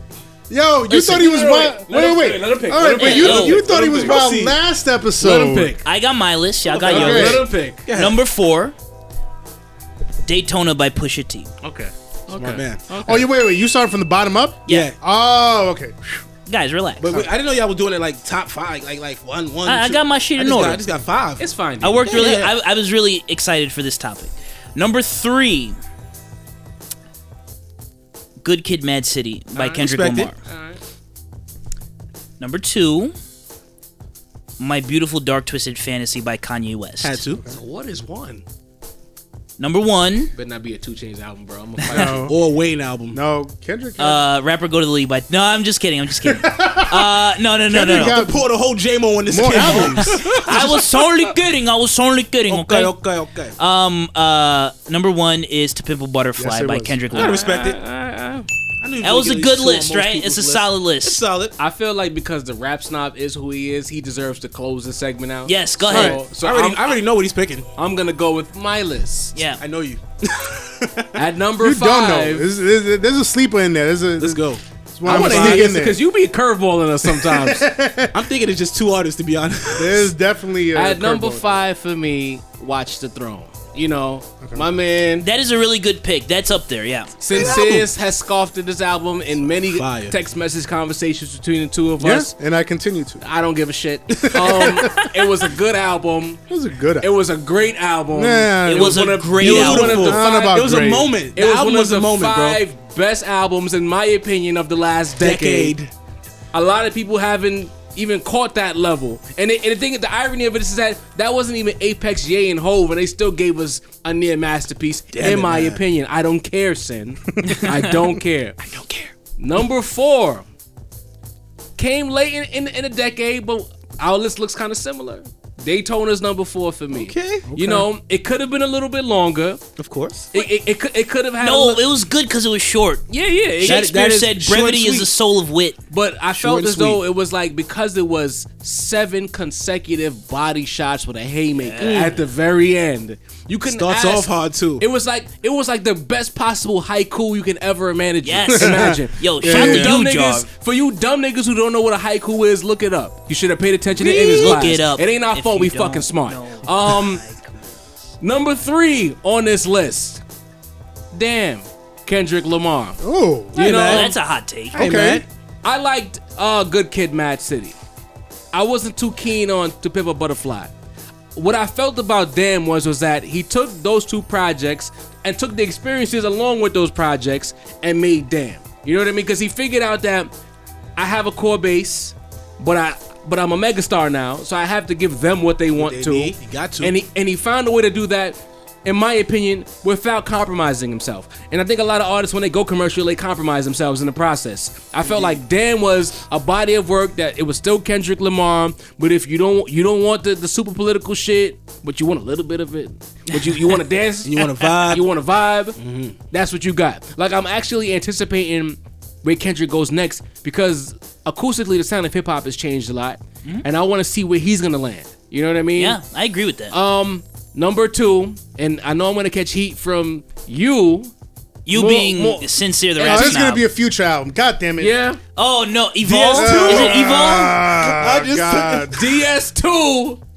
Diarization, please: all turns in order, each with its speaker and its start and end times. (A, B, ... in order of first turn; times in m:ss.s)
0:00.5-0:05.7 A
0:00.9-0:01.3 B
0:01.0-0:04.2 C
0:02.9-0:03.6 B
0:03.3-0:04.6 D
0:05.2-0:05.8 C
0:05.8-0:08.7 B
0:06.7-0:08.2 D
0:06.9-0:07.8 C
0:06.9-0:07.4 A
0:10.2-0:11.5 B
0:11.6-0:13.2 C
0:12.3-0:13.0 D
0:13.0-0:16.0 A
0:14.7-0:15.0 D
0:16.4-0:17.2 B
0:17.0-0:21.4 D
0:19.6-0:20.8 B
0:21.4-0:22.1 C
0:21.8-0:25.8 B
0:22.0-0:22.5 D
0:28.4-0:30.3 B
0:29.6-0:29.8 C
0:29.8-0:30.3 D
0:30.4-0:30.8 C
0:32.4-0:33.1 B
0:34.6-0:37.2 B
0:37.0-0:37.4 D
0:37.5-0:38.4 C
0:39.6-0:40.3 B
0:40.3-0:42.3 C
0:41.9-0:42.4 A
0:41.9-0:43.2 D
0:43.1-0:44.2 A
0:44.0-0:48.2 B
0:46.2-0:47.2 A
0:47.7-0:48.4 A
0:48.0-0:50.6 D
0:49.3-0:50.7 A
0:49.6-0:52.9 B
0:52.5-0:53.5 D
0:53.6-0:57.4 B
0:56.4-0:57.0 A
0:57.1-0:58.5 C
0:57.1-0:57.8 D
0:58.8-1:01.5 D
0:59.0-1:01.2 B
1:01.6-1:07.0 C
1:05.4-1:06.2 B
1:05.9-1:06.2 A
1:06.3-1:07.7 D
1:07.8-1:09.4 C
1:09.3-1:09.6 B
1:09.6-1:11.1 D
1:11.2-1:12.4 C
1:11.6-1:16.0 A
1:14.2-1:15.7 D
1:15.0-1:17.7 C
1:17.1-1:18.1 A
1:18.1-1:20.1 D
1:19.7-1:21.6 A
1:20.7-1:25.2 C
1:25.2-1:27.1 B
1:27.2-1:32.3 C
1:27.3-1:27.9 D
1:29.7-1:30.1 D
1:32.0-1:33.2 A
1:33.2-1:36.4 C
1:34.2-1:35.1 A
1:36.5-1:37.1 A
1:37.0-1:40.7 C
1:38.1-1:39.2 A
1:38.6-1:40.1 B
1:39.4-1:42.6 D
1:39.8-1:41.1 A
1:41.3-1:45.7 C
1:45.2-1:45.9 D
1:46.5-1:58.6 C
1:55.1-1:55.8 D
1:57.4-1:57.7 A
1:57.4-1:57.8 B
1:58.6-1:59.1 D
1:59.4-2:00.4 C
2:01.8-2:09.6 C
2:06.9-2:07.8 D
2:09.8-2:10.3 D
2:10.3-2:11.8 C
2:11.4-2:13.0 B
2:13.1-2:13.9 C
2:13.6-2:15.8 B
2:13.6-2:15.1 D
2:15.9-2:37.2 C
2:16.3-2:17.0 D
2:21.6-2:22.1 B
2:21.8-2:22.2 D
2:23.6-2:24.8 D
2:28.2-2:30.5 B
2:28.5-2:29.9 A
2:34.1-2:38.1 B
2:34.1-2:34.5 D
2:38.2-2:40.2 C
2:41.1-2:43.0 C
2:43.0-2:43.7 A
2:43.5-2:44.1 C
2:43.6-2:44.1 D
2:43.7-2:44.8 B
2:44.7-2:45.2 A
2:44.7-2:45.2 D
2:45.6-2:47.7 C
2:48.5-2:50.7 C
2:51.3-3:00.3 C
3:01.0-3:25.8 C
3:05.8-3:06.9 D
3:15.0-3:15.4 D
3:23.3-3:23.8 B
3:24.2-3:25.0 D
3:25.8-3:26.2 D
3:26.3-3:36.0 C
3:35.8-3:36.8 B
3:36.7-3:41.1 C
3:41.6-3:43.6 B
3:41.7-3:43.4 C
3:43.0-3:44.9 A
3:44.8-3:45.2 C
3:45.4-3:47.5 B
3:46.0-3:49.0 D
3:46.3-3:49.0 A
3:48.9-3:50.2 C